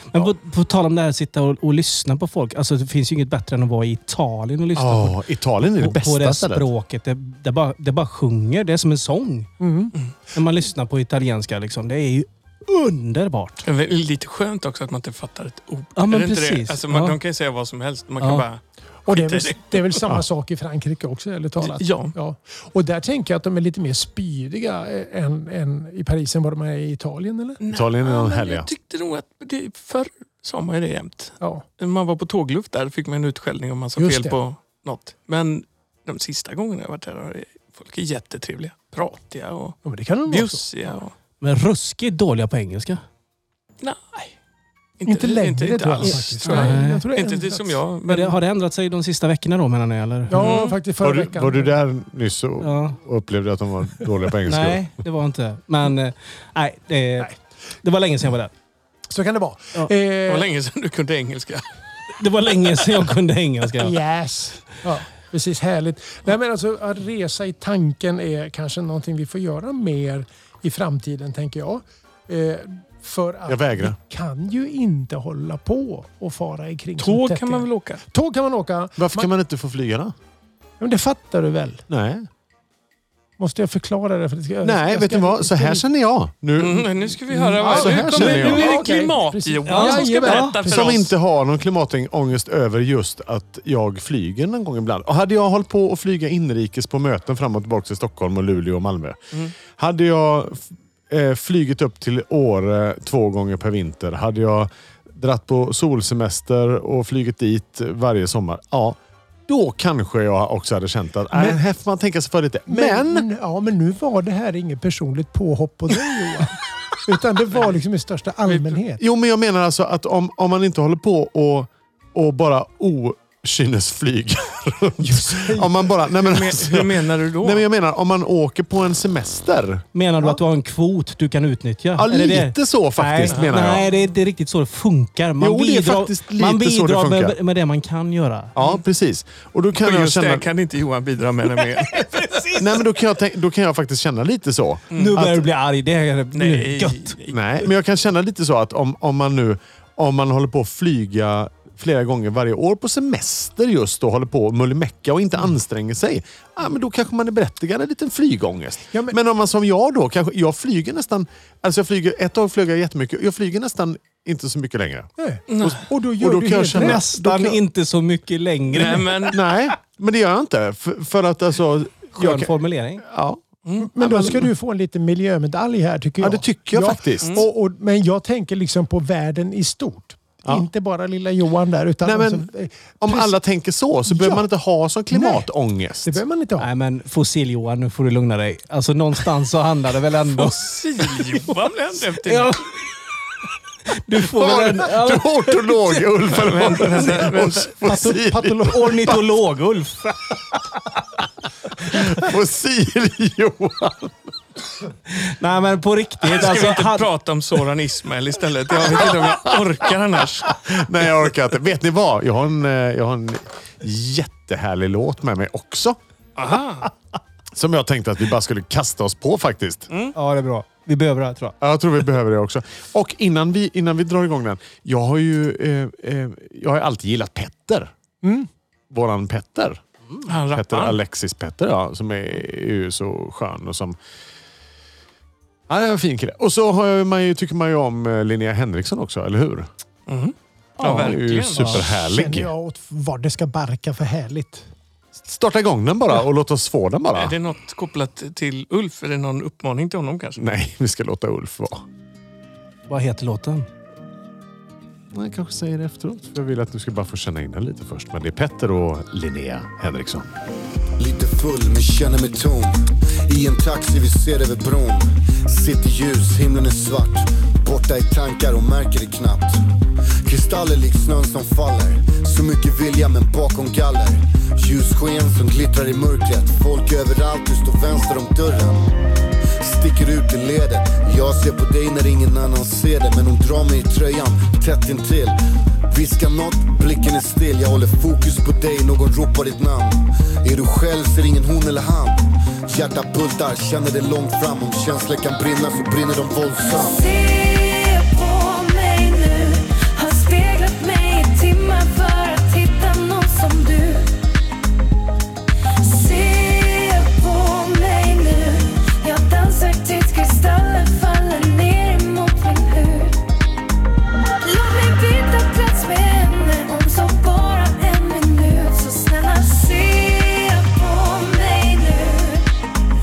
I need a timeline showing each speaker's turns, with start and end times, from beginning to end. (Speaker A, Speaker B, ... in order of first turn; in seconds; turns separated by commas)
Speaker A: 0.1-5.2, Speaker B: 4.8-6.7, Speaker A: 5.8-9.5, Speaker C: 9.6-9.9, Speaker A: 10.3-13.7, Speaker D: 13.7-20.1, Speaker A: 16.0-17.2, Speaker A: 18.2-18.4, Speaker C: 19.1-27.6, Speaker D: 21.6-22.1, Speaker D: 27.6-41.1, Speaker B: 27.7-28.7, Speaker C: 34.0-34.4, Speaker C: 39.8-40.6, Speaker A: 41.4-43.0, Speaker D: 43.8-44.3, Speaker D: 45.0-48.4, Speaker C: 45.1-47.8, Speaker A: 46.0-47.0, Speaker A: 48.1-50.4, Speaker C: 50.3-51.8, Speaker D: 50.4-50.8, Speaker B: 51.0-54.9, Speaker A: 52.6-53.0, Speaker A: 54.5-57.3, Speaker A: 57.8-58.5, Speaker C: 59.1-60.5, Speaker D: 60.3-61.6, Speaker A: 62.2-64.0, Speaker C: 63.8-79.3, Speaker B: 73.5-74.0, Speaker D: 77.0-78.0, Speaker B: 79.0-80.1, Speaker C: 80.8-81.8, Speaker B: 81.9-82.3, Speaker C: 83.4-85.8, Speaker B: 84.6-88.8, Speaker D: 86.6-91.1, Speaker C: 87.3-91.0, Speaker A: 89.7-90.5, Speaker B: 90.6-113.3, Speaker C: 111.3-111.6, Speaker C: 112.7-119.0, Speaker D: 117.5-117.8, Speaker D: 118.5-118.8, Speaker B: 119.0-129.9, Speaker C: 125.0-125.8, Speaker D: 126.2-127.7, Speaker A: 129.9-138.5, Speaker B: 132.0-133.9, Speaker D: 133.3-134.0, Speaker B: 135.4-137.4, Speaker B: 138.6-140.5, Speaker D: 139.8-142.4, Speaker A: 141.8-142.7, Speaker B: 142.6-145.4, Speaker D: 144.9-145.2, Speaker A: 144.9-147.1, Speaker D: 146.3-147.5, Speaker B: 147.3-167.6, Speaker C: 165.2-167.0, Speaker D: 165.5-165.8, Speaker A: 166.7-169.3, Speaker D: 168.7-169.4, Speaker B: 169.3-173.4, Speaker A: 172.2-173.0, Speaker D: 173.7-173.9, Speaker C: 173.8-183.4, Speaker B: 174.0-174.5, Speaker B: 176.2-177.5, Speaker B: 182.0-182.5, Speaker B: 183.0-186.2, Speaker C: 184.1-184.5, Speaker C: 185.1-185.5, Speaker C: 186.0-186.7, Speaker A: 186.6-191.5, Speaker D: 190.3-192.7, Speaker A: 192.2-192.6, Speaker A: 193.9-196.1, Speaker B: 194.2-199.2, Speaker D: 196.3-197.7, Speaker C: 197.8-198.8, Speaker A: 198.4-200.4, Speaker B: 201.8-204.2, Speaker A: 205.1-207.1, Speaker D: 206.2-210.6, Speaker B: 208.8-209.9, Speaker B: 210.4-216.0, Speaker D: 216.4-216.9, Speaker B: 217.5-219.9, Speaker A: 220.2-221.6, Speaker B: 221.6-227.9, Speaker C: 228.2-228.5, Speaker B: 228.9-229.8, Speaker D: 230.3-231.0, Speaker B: 230.5-234.0, Speaker B: 235.7-239.7, Speaker D: 240.1-241.8, Speaker B: 240.8-242.5, Speaker C: 241.9-244.7, Speaker B: 245.2-247.4, Speaker D: 247.2-250.4, Speaker B: 250.4-251.8, Speaker A: 252.9-253.7, Speaker B: 255.1-260.3, Speaker E: 261.0-269.6, Speaker E: 270.2-278.9, Speaker E: 279.6-285.4, Speaker E: 285.9-297.1, Speaker F: 296.6-304.1, Speaker F: 305.8-313.2, Speaker F: 314.4-322.5